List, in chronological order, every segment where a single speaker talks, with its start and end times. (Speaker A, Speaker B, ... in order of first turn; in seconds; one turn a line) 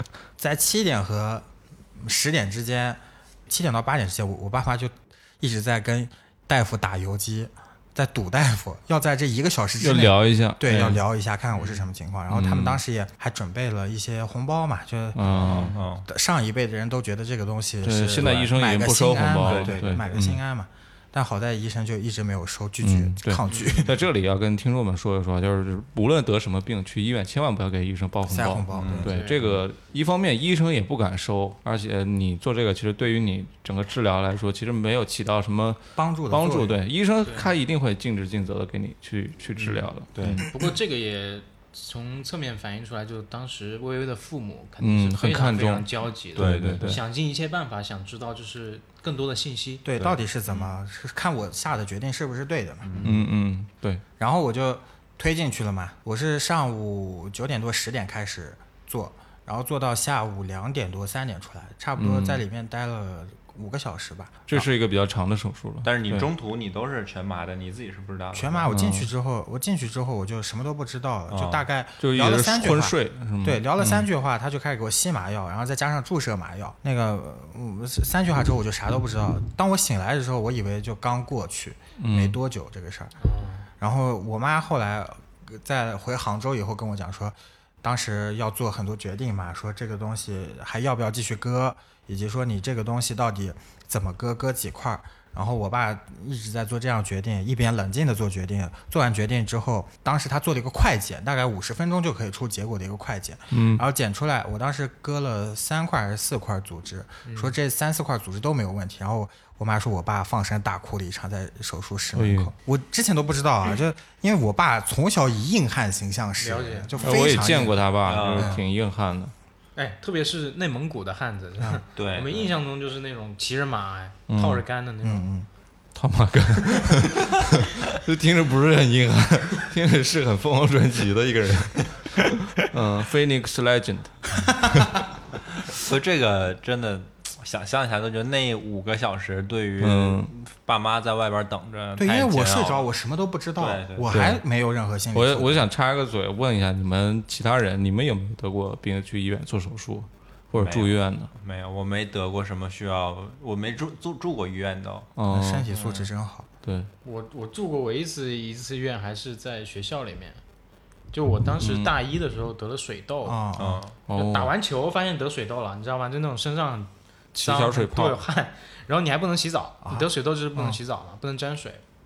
Speaker A: 0.4-24.0
Speaker B: 9.8-11.0
Speaker C: 11.5-11.8
Speaker B: 12.3-12.8
Speaker B: 15.2-15.8
Speaker D: 15.4-16.1
Speaker B: 17.8-20.4
Speaker D: 19.4-20.2
Speaker B: 22.8-40.5
Speaker C: 23.5-23.9
Speaker A: 28.3-29.1
Speaker D: 28.7-29.6
Speaker C: 29.1-29.4
Speaker A: 36.0-36.8
Speaker C: 37.2-37.5
Speaker D: 39.6-40.4
Speaker C: 40.4-49.9
Speaker B: 44.8-47.0
Speaker D: 46.4-47.0
Speaker A: 49.9-53.1
Speaker D: 50.0-50.8
Speaker D: 52.8-53.3
Speaker B: 53.0-54.0
Speaker A: 54.2-64.7
Speaker B: 62.0-62.4
Speaker B: 64.5-66.3
Speaker D: 65.8-68.7
Speaker A: 68.3-83.2
Speaker B: 68.7-69.1
Speaker D: 71.3-71.7
Speaker B: 72.0-74.1
Speaker B: 82.0-82.4
Speaker C: 83.2-83.7
Speaker A: 83.8-118.6
Speaker B: 103.5-103.8
Speaker C: 107.2-107.5
Speaker B: 112.2-112.5
Speaker C: 116.4-117.3
Speaker B: 117.0-119.3
Speaker D: 118.0-118.6
Speaker C: 119.8-125.3
Speaker D: 122.0-122.6
Speaker B: 124.3-124.7
Speaker A: 125.0-125.5
Speaker B: 126.0-135.0
Speaker D: 135.7-142.9
Speaker B: 139.8-140.3
Speaker A: 142.0-145.6
Speaker D: 143.6-144.1
Speaker B: 144.1-144.4
Speaker B: 145.1-151.3
Speaker D: 150.6-155.1
Speaker B: 155.2-155.7
Speaker A: 155.3-156.5
Speaker C: 155.7-156.1
Speaker B: 156.6-156.9
Speaker C: 157.0-160.4
Speaker C: 161.1-163.4
Speaker B: 161.6-161.9
Speaker A: 163.2-163.8
Speaker D: 163.6-163.9
Speaker B: 164.1-164.5
Speaker C: 164.1-166.9
Speaker B: 167.3-168.2
Speaker C: 167.4-171.8
Speaker A: 169.8-170.8